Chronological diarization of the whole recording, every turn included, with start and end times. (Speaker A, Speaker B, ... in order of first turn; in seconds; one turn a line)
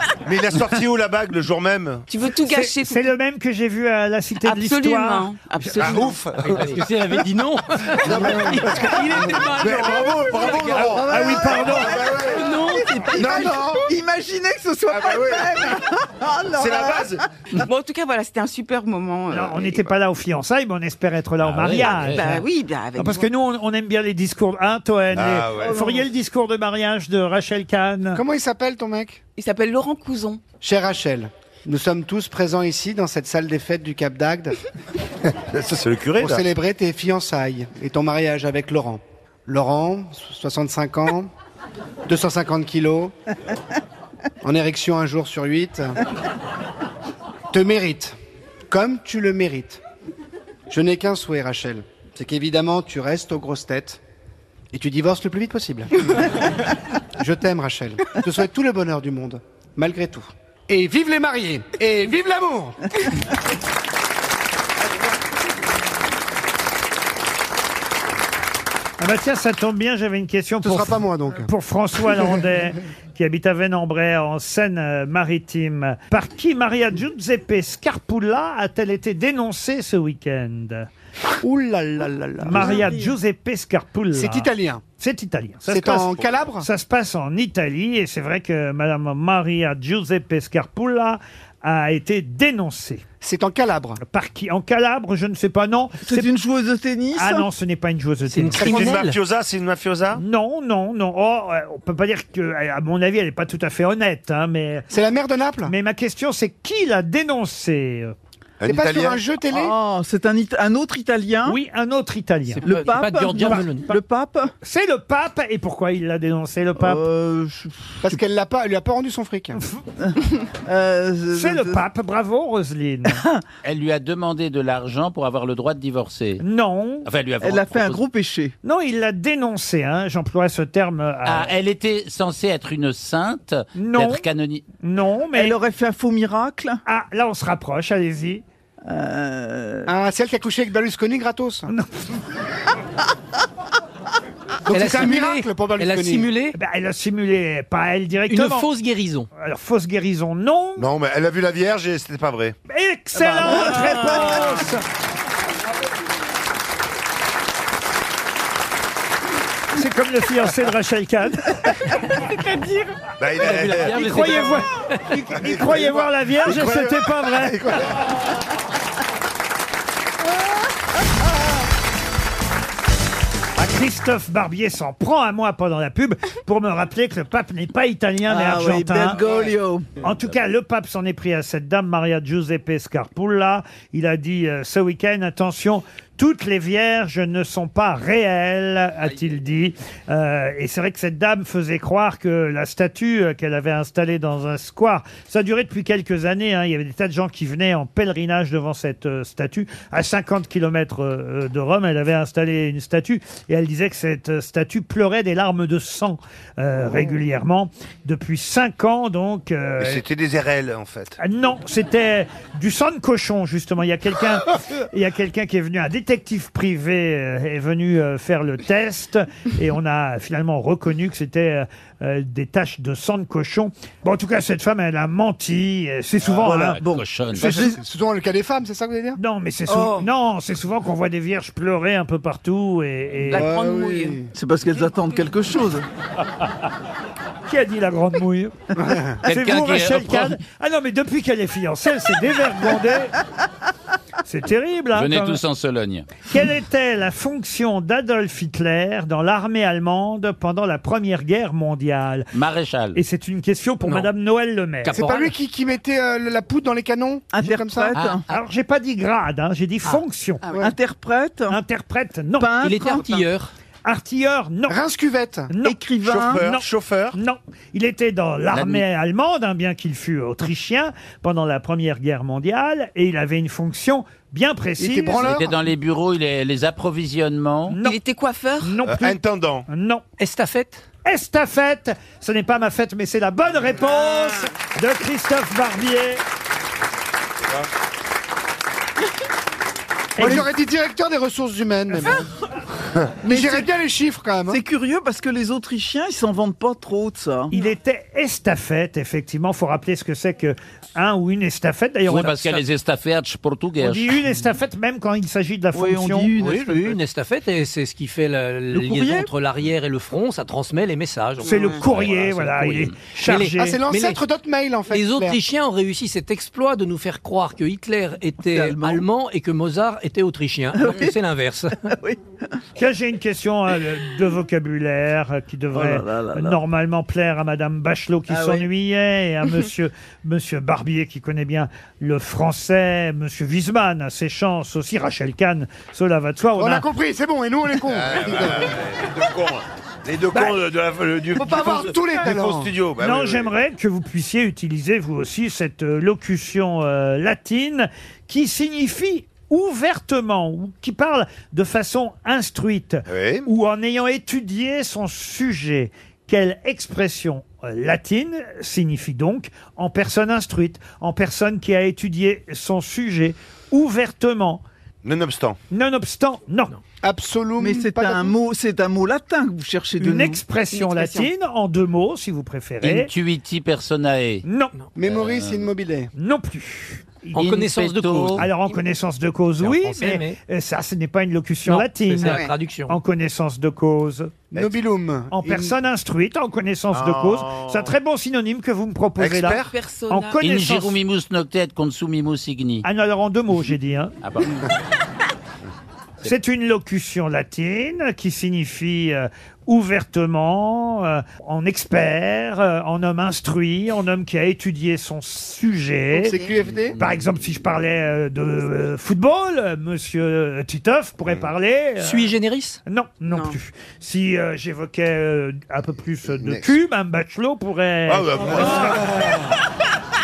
Speaker A: 0.2-2.1
Speaker B: 2.1-3.1
Speaker C: 2.3-6.0
Speaker B: 4.4-6.3
Speaker A: 5.8-6.9
Speaker D: 6.4-11.0
Speaker A: 8.0-12.5
Speaker E: 10.7-17.2
Speaker C: 11.0-12.1
Speaker D: 12.2-13.1
Speaker A: 13.1-13.9
Speaker A: 14.9-15.7
Speaker A: 16.6-17.2
Speaker B: 17.5-19.9
Speaker C: 19.3-22.4
Speaker F: 21.4-22.4
Speaker B: 21.8-23.3
Speaker C: 23.0-28.2
Speaker A: 25.1-25.9
Speaker E: 25.6-26.1
Speaker G: 28.1-29.2
Speaker B: 29.4-30.5
Speaker G: 30.6-34.6
Speaker A: 35.5-36.4
Speaker G: 36.2-41.3
Speaker G: 42.1-43.1
Speaker G: 44.4-46.0
Speaker G: 47.5-48.1
Speaker G: 48.7-49.8
Speaker G: 50.7-54.0
Speaker G: 54.7-55.9
Speaker G: 57.2-62.8
Speaker C: 69.0-80.9
Speaker G: 70.6-71.5
Speaker G: 81.4-82.9
Speaker C: 82.4-93.0
Speaker E: 82.5-83.2
Speaker G: 84.1-84.8
Speaker G: 85.7-86.7
Speaker A: 86.2-86.5
Speaker G: 93.2-94.0
Speaker C: 94.0-96.3
Speaker E: 96.0-97.5
Speaker C: 97.2-99.0
Speaker D: 98.3-99.2
Speaker A: 98.6-100.2
Speaker C: 100.2-104.9
Speaker G: 104.9-105.7
Speaker C: 105.7-108.1
Speaker A: 108.6-109.2
Speaker G: 108.7-109.8
Speaker E: 109.5-111.6
Speaker C: 111.5-113.9
Speaker D: 112.5-113.9
Speaker E: 112.6-114.5
Speaker C: 114.6-117.0
Speaker E: 116.8-118.2
Speaker G: 118.0-119.6
Speaker E: 120.0-121.8
Speaker C: 121.3-123.2
Speaker E: 123.1-123.4
Speaker F: 123.6-126.4
Speaker C: 126.4-127.1
Speaker F: 127.0-128.0
Speaker E: 127.4-128.5
Speaker C: 128.6-131.5
Speaker F: 131.2-134.6
Speaker C: 133.8-134.2
Speaker C: 134.8-135.6
Speaker E: 135.3-136.8
Speaker C: 136.9-138.4
Speaker E: 138.8-139.9
Speaker G: 139.9-141.7
Speaker G: 144.7-146.4
Speaker D: 144.7-146.6
Speaker C: 146.5-148.7
Speaker D: 148.3-149.3
Speaker C: 149.4-150.9
Speaker A: 150.8-152.6
Speaker C: 152.7-154.8
Speaker E: 153.2-154.6
Speaker C: 159.7-161.7
Speaker A: 163.2-164.1
Speaker D: 163.4-164.6
Speaker C: 163.9-167.8
Speaker F: 164.0-164.3
Speaker A: 165.4-168.0
Speaker C: 173.6-179.2
Speaker E: 178.3-179.9
Speaker C: 180.0-210.0
Speaker A: 209.8-211.2
Speaker C: 211.2-226.8
Speaker F: 226.2-227.5
Speaker E: 226.4-227.5
Speaker G: 227.4-229.2
Speaker C: 227.4-227.8
Speaker C: 229.2-233.5
Speaker E: 229.7-230.1
Speaker B: 233.3-234.2
Speaker G: 233.3-234.3
Speaker E: 234.3-235.9
Speaker C: 237.5-243.2
Speaker G: 238.8-239.1
Speaker F: 239.3-240.4
Speaker C: 244.2-245.4
Speaker F: 244.9-246.1
Speaker C: 246.3-252.3
Speaker F: 252.3-253.0
Speaker C: 252.9-255.1
Speaker D: 254.8-255.3
Speaker G: 254.9-258.0
Speaker E: 257.3-258.2
Speaker F: 257.9-258.4
Speaker C: 258.3-260.5
Speaker E: 260.6-261.6
Speaker C: 261.5-263.0
Speaker E: 262.4-263.2
Speaker D: 262.6-263.5
Speaker C: 263.9-264.8
Speaker G: 264.7-265.5
Speaker C: 265.5-265.8
Speaker E: 265.6-266.5
Speaker A: 266.0-267.2
Speaker C: 266.4-275.3
Speaker F: 268.5-268.9
Speaker G: 274.8-275.5
Speaker F: 275.2-277.8
Speaker C: 277.7-278.0
Speaker B: 277.8-278.8
Speaker C: 278.6-280.0
Speaker A: 278.9-279.7
Speaker D: 280.2-280.8
Speaker C: 281.1-286.2
Speaker C: 290.2-290.5
Speaker G: 290.2-292.3
Speaker G: 293.2-294.6
Speaker E: 293.2-293.7
Speaker E: 294.5-297.5
Speaker C: 297.5-302.6
Speaker F: 302.1-304.2
Speaker C: 303.8-306.3
Speaker E: 305.7-307.0
Speaker D: 306.4-314.2
Speaker E: 308.7-309.3
Speaker B: 311.4-311.9
Speaker C: 311.4-313.9
Speaker F: 311.8-313.0
Speaker G: 313.5-315.4
Speaker D: 314.9-321.8
Speaker E: 318.4-319.0
Speaker E: 320.8-321.1
Speaker E: 321.9-322.6
Speaker C: 322.8-336.9
Speaker E: 325.7-326.6
Speaker E: 328.3-328.7
Speaker G: 336.6-338.8
Speaker A: 337.9-343.5
Speaker G: 341.4-342.7
Speaker C: 343.0-364.6
Speaker A: 353.1-353.5
Speaker A: 365.0-365.6
Speaker C: 365.7-366.8
Speaker G: 367.0-368.3
Speaker E: 367.6-370.4
Speaker C: 370.0-373.1
Speaker B: 370.7-371.3
Speaker F: 372.8-374.4
Speaker C: 374.4-374.8
Speaker G: 374.9-376.1
Speaker F: 375.0-375.7
Speaker C: 376.1-377.4
Speaker F: 377.3-378.5
Speaker D: 377.4-378.5
Speaker C: 378.3-384.4
Speaker D: 379.6-380.4
Speaker D: 381.6-383.0
Speaker B: 382.2-382.5
Speaker G: 384.5-385.7
Speaker C: 385.3-391.0
Speaker A: 386.9-387.9
Speaker A: 389.2-389.7
Speaker B: 389.6-390.4
Speaker F: 390.4-392.9
Speaker C: 392.8-394.1
Speaker F: 394.2-394.6
Speaker C: 396.2-406.3
Speaker G: 406.1-407.0
Speaker B: 406.2-406.6
Speaker C: 407.0-412.3
Speaker D: 412.0-412.8
Speaker C: 412.9-419.1
Speaker B: 413.3-413.6
Speaker A: 416.3-416.8
Speaker A: 418.1-419.1